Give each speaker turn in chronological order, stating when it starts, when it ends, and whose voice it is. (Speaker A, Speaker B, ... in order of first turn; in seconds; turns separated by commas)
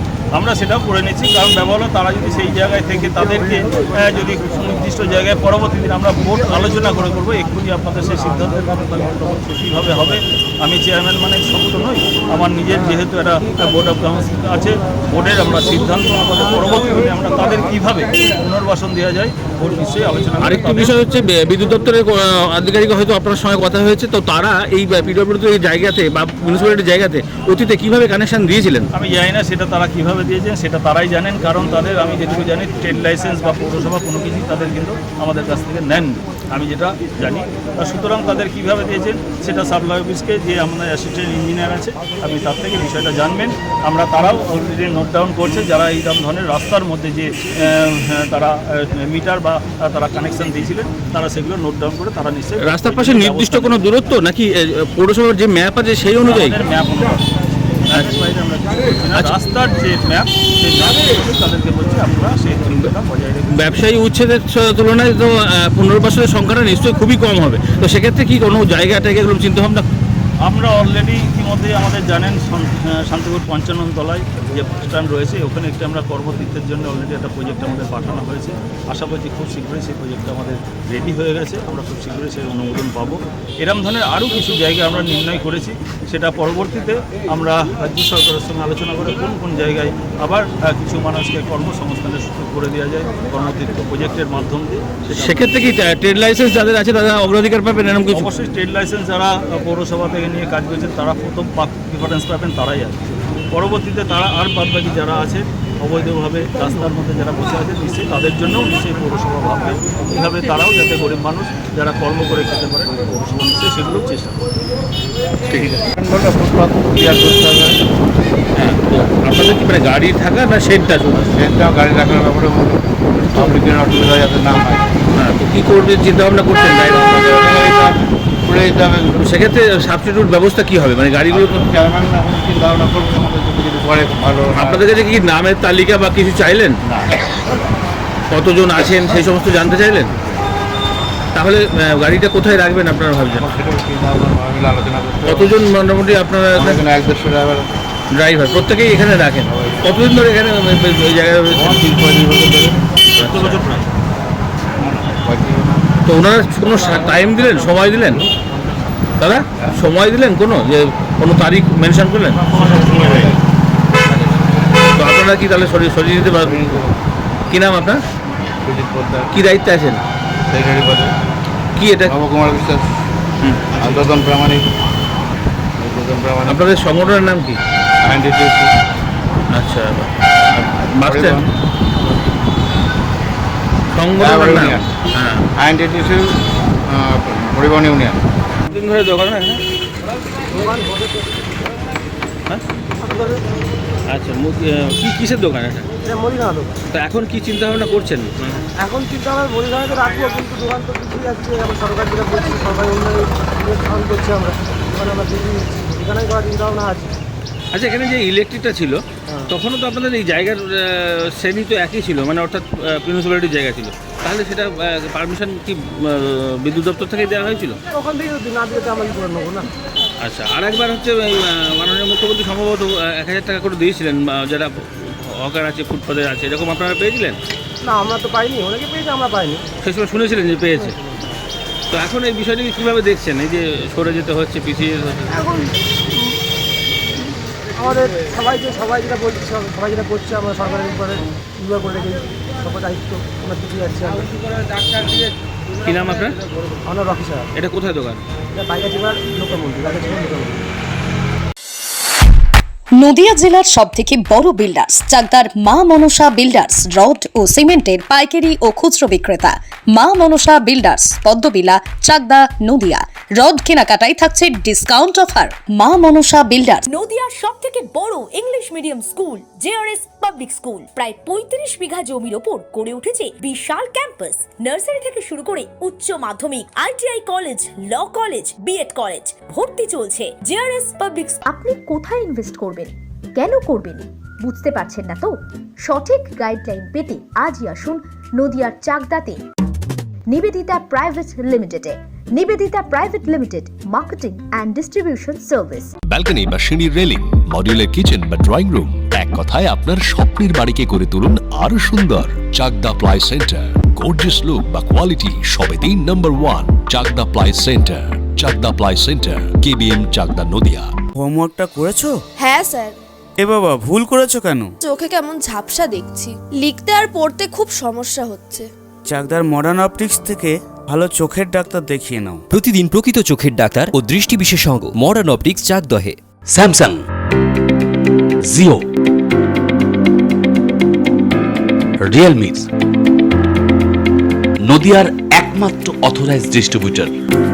Speaker A: 0.3-20.9, Speaker B: 20.4-28.9, Speaker A: 28.9-53.8, Speaker B: 52.6-56.6, Speaker A: 56.2-57.2, Speaker A: 57.9-63.8, Speaker B: 63.6-69.9, Speaker A: 70.5-95.6, Speaker B: 95.1-98.3, Speaker A: 98.1-114.4, Speaker B: 115.5-115.8, Speaker C: 115.6-117.8, Speaker B: 118.6-121.3, Speaker C: 121.3-125.0, Speaker B: 125.2-127.3, Speaker C: 126.6-129.2, Speaker B: 129.2-131.7, Speaker C: 131.3-134.9, Speaker B: 134.5-136.8, Speaker B: 138.3-140.2, Speaker B: 141.3-143.5, Speaker C: 143.3-145.6, Speaker B: 145.2-146.8, Speaker C: 146.5-147.7, Speaker B: 148.2-153.6, Speaker C: 149.5-150.0, Speaker C: 151.6-151.9, Speaker A: 153.2-153.9, Speaker C: 154.8-155.9, Speaker B: 156.1-158.3, Speaker B: 159.2-163.3, Speaker C: 162.6-163.4, Speaker B: 164.1-164.4, Speaker B: 164.9-166.8, Speaker C: 166.4-166.9, Speaker B: 167.5-168.0, Speaker C: 168.7-169.4, Speaker B: 169.3-170.0, Speaker C: 170.5-171.1, Speaker B: 171.8-172.2, Speaker C: 172.1-172.9, Speaker C: 173.7-174.7, Speaker C: 175.8-176.7, Speaker B: 176.5-177.6, Speaker C: 178.0-178.7, Speaker B: 179.5-181.4, Speaker C: 180.8-181.5, Speaker B: 183.9-185.4, Speaker C: 184.2-184.9, Speaker C: 185.6-186.4, Speaker C: 186.9-188.2, Speaker B: 188.7-189.6, Speaker D: 190.5-191.3, Speaker D: 193.0-193.3, Speaker B: 194.1-195.9, Speaker D: 196.1-196.8, Speaker B: 196.9-198.6, Speaker D: 198.8-207.1, Speaker B: 207.7-217.8, Speaker D: 217.9-219.7, Speaker B: 220.2-227.4, Speaker D: 227.8-229.6, Speaker B: 229.8-230.9, Speaker B: 231.9-235.4, Speaker D: 235.3-235.7, Speaker D: 237.8-244.2, Speaker B: 245.8-246.4, Speaker D: 246.9-247.4, Speaker B: 247.6-248.2, Speaker D: 248.6-250.6, Speaker E: 253.0-266.8, Speaker F: 266.9-281.4, Speaker G: 281.4-289.4, Speaker G: 290.3-295.9, Speaker H: 296.1-310.9, Speaker I: 311.2-312.2, Speaker J: 312.4-312.9, Speaker I: 313.4-314.7, Speaker J: 314.8-318.7, Speaker I: 319.1-322.4, Speaker K: 322.5-326.2, Speaker L: 326.5-327.0, Speaker L: 328.4-328.8, Speaker L: 332.0-332.7, Speaker L: 334.6-337.1